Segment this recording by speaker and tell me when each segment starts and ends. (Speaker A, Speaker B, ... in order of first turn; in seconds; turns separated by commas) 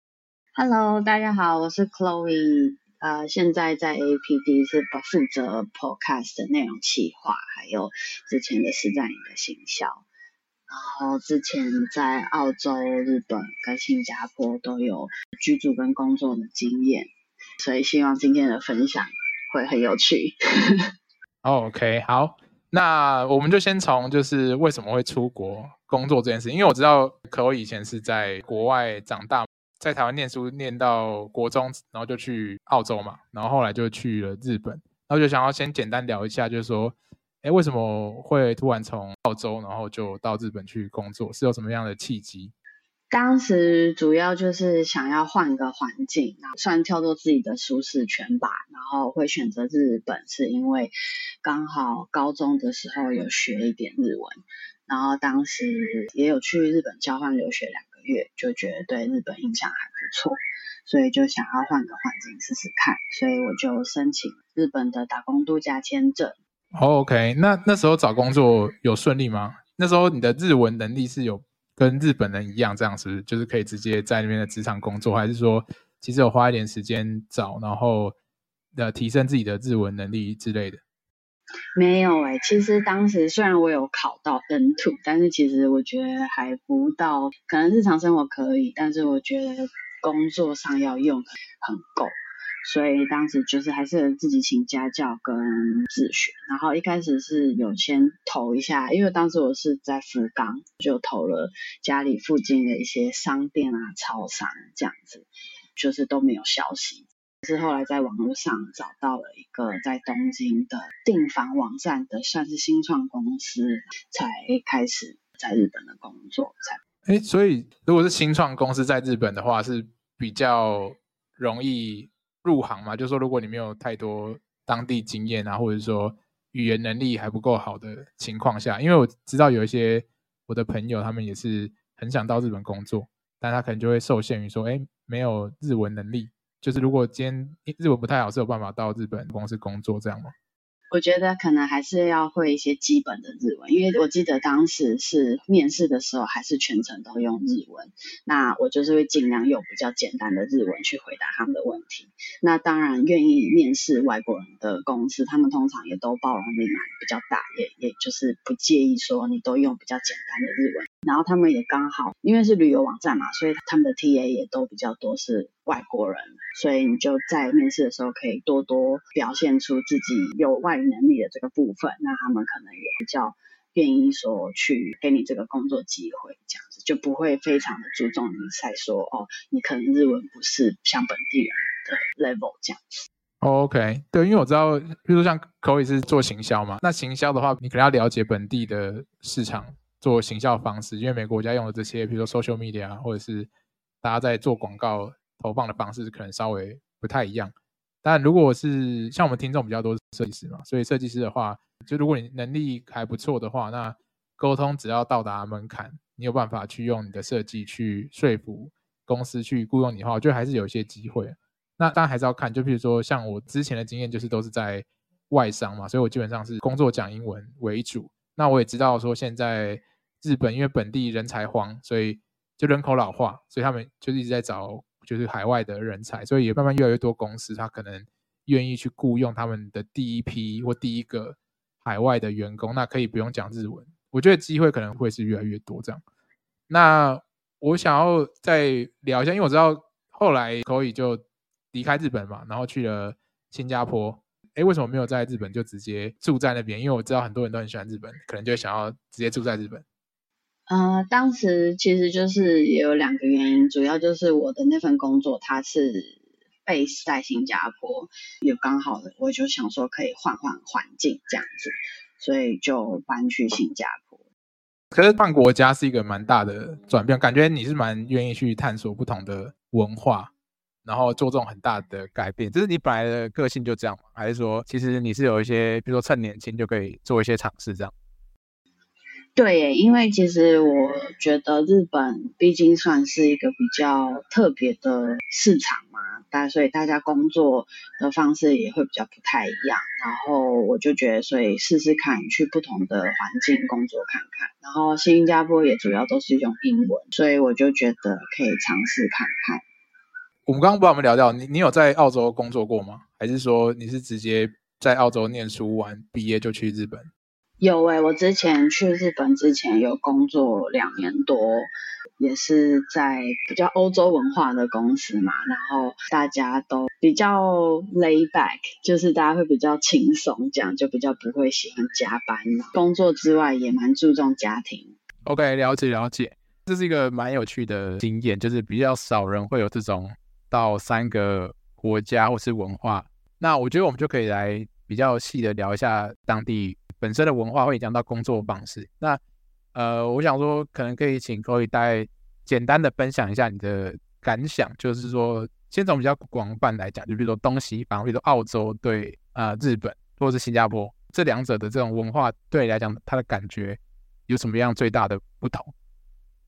Speaker A: 0.5-10.0, Speaker A: 10.7-20.9, Speaker B: 21.4-42.5, Speaker A: 43.1-66.3, Speaker B: 66.7-78.2, Speaker B: 78.7-80.8, Speaker A: 81.8-92.1, Speaker A: 92.6-116.8, Speaker B: 117.0-140.3, Speaker A: 140.9-183.1, Speaker B: 183.4-193.5, Speaker B: 194.0-236.0, Speaker B: 236.7-249.8, Speaker A: 250.7-264.2, Speaker B: 264.9-270.3, Speaker B: 270.8-277.9, Speaker A: 279.4-299.6, Speaker B: 300.4-307.1, Speaker A: 307.6-324.9, Speaker B: 325.2-339.2, Speaker B: 339.7-355.7